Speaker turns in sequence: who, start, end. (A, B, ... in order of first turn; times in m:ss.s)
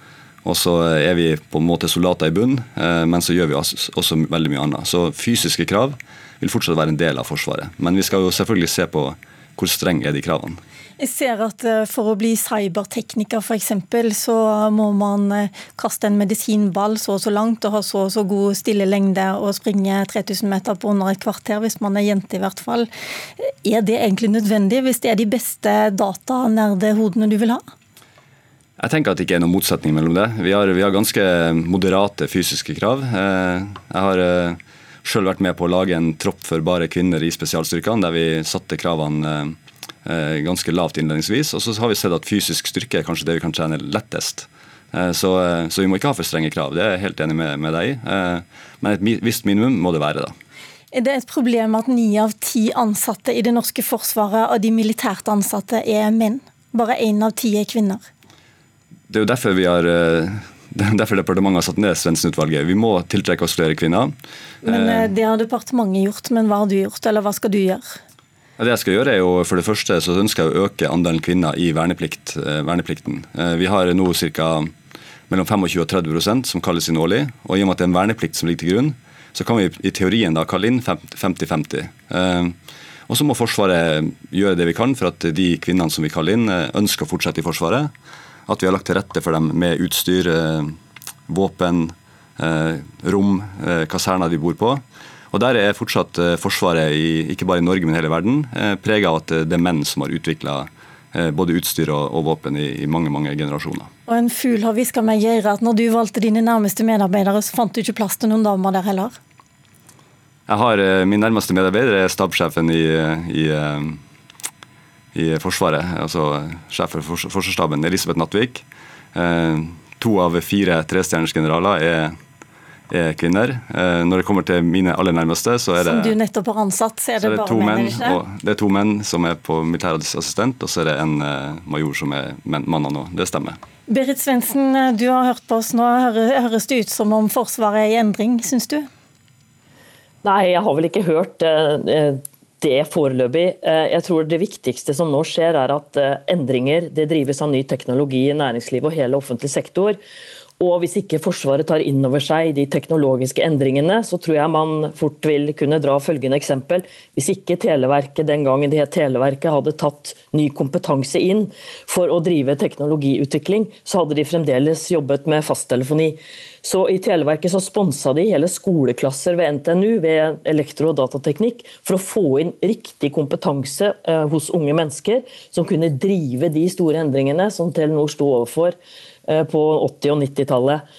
0:00.4-0:10.6 A
0:11.0-0:22.9 B
0:23.4-0:27.6 B
0:28.8-0:50.3 A
0:50.9-0:58.0 B
0:59.1-1:04.1 A
1:04.6-1:07.8 B
1:04.6-1:05.1 A
1:08.6-1:14.7 A
1:15.3-1:22.5 A
1:23.1-1:27.9 A
1:28.5-1:30.8 A
1:31.3-1:43.9 A
1:44.1-1:49.1 B
1:50.5-1:54.0 A
1:55.1-2:02.1 A
2:02.9-2:06.2 A
2:05.8-2:08.2 B
2:07.2-2:13.6 A
2:13.9-2:18.8 B
2:20.2-2:30.0 C
2:30.6-3:00.8 C